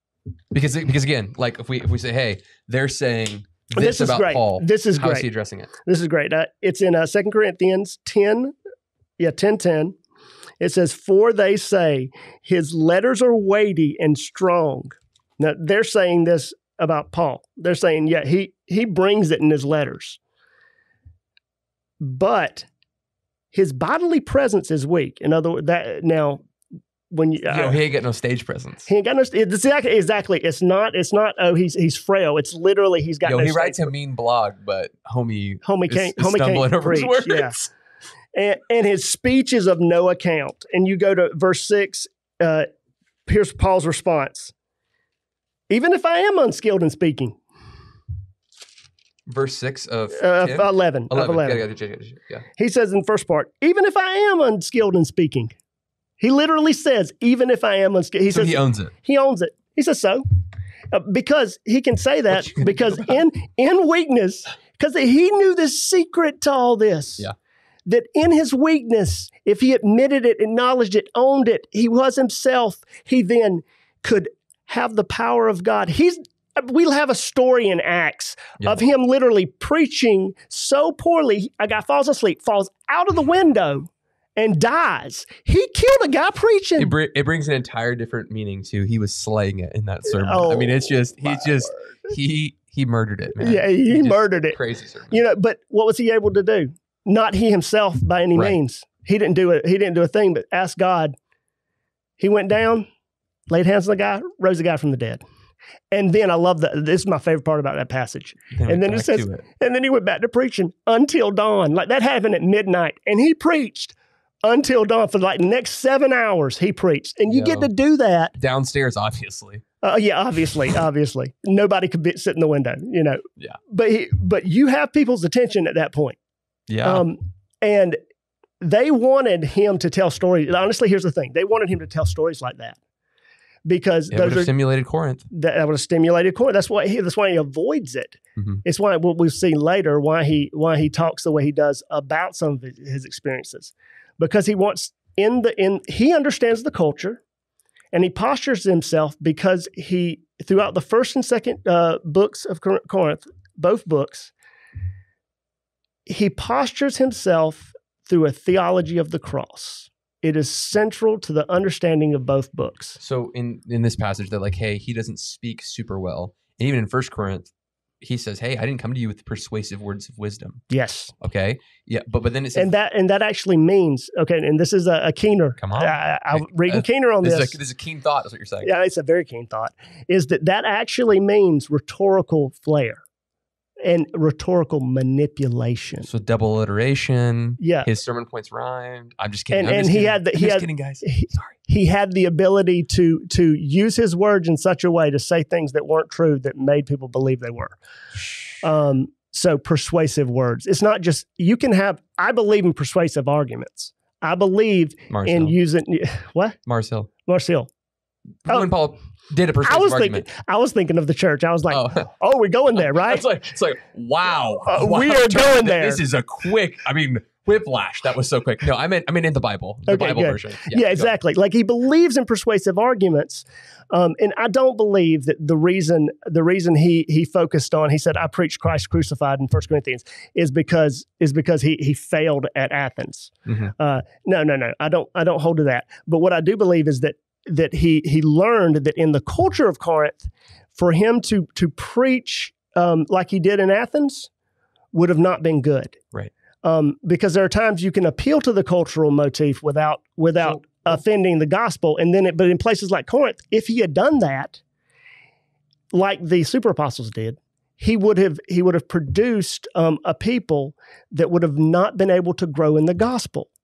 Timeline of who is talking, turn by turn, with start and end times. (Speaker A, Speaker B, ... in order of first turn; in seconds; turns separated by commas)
Speaker A: 0.5-5.7, Speaker B: 3.8-5.3, Speaker B: 5.8-8.5, Speaker B: 9.2-10.0, Speaker B: 10.6-20.2, Speaker B: 22.0-22.7, Speaker B: 23.5-26.4, Speaker B: 27.1-27.8, Speaker A: 27.4-28.9, Speaker B: 28.9-33.9, Speaker A: 33.2-37.7, Speaker B: 35.6-37.6, Speaker B: 38.4-42.7, Speaker B: 43.3-44.5, Speaker B: 45.7-47.4, Speaker A: 49.3-52.5, Speaker B: 50.1-51.6, Speaker B: 52.6-55.5, Speaker B: 56.2-60.2, Speaker A: 58.3-58.9, Speaker B: 60.9-67.3, Speaker A: 62.3-63.2, Speaker B: 67.9-86.9, Speaker A: 86.8-95.2, Speaker B: 90.1-91.7, Speaker B: 93.4-94.6, Speaker B: 95.1-101.1, Speaker B: 102.2-102.9, Speaker B: 103.5-105.2, Speaker B: 105.9-118.3, Speaker A: 108.5-109.5, Speaker A: 117.3-117.7, Speaker A: 118.4-119.6, Speaker B: 119.8-126.2, Speaker A: 126.7-127.1, Speaker B: 126.8-128.0, Speaker B: 128.6-132.8, Speaker B: 133.7-134.5, Speaker A: 134.1-135.3, Speaker B: 135.3-147.2, Speaker A: 138.4-138.6, Speaker B: 147.9-154.3, Speaker B: 156.1-163.0, Speaker A: 163.0-167.5, Speaker A: 168.0-170.6, Speaker B: 170.7-171.1, Speaker A: 171.2-172.7, Speaker B: 172.6-177.6, Speaker A: 175.6-178.7, Speaker B: 178.6-183.0, Speaker B: 183.8-186.1, Speaker A: 186.0-191.5, Speaker B: 187.6-187.9, Speaker B: 189.5-197.8, Speaker A: 198.3-198.6, Speaker B: 198.6-206.6, Speaker A: 205.1-205.6, Speaker A: 206.7-207.1, Speaker B: 207.3-207.7, Speaker A: 208.4-210.3, Speaker B: 209.7-213.2, Speaker A: 211.7-212.1, Speaker A: 212.8-221.1, Speaker B: 214.7-216.0, Speaker B: 219.9-244.3, Speaker A: 233.5-233.7, Speaker B: 244.9-246.0, Speaker B: 246.6-254.6, Speaker A: 250.5-250.8, Speaker B: 255.9-263.5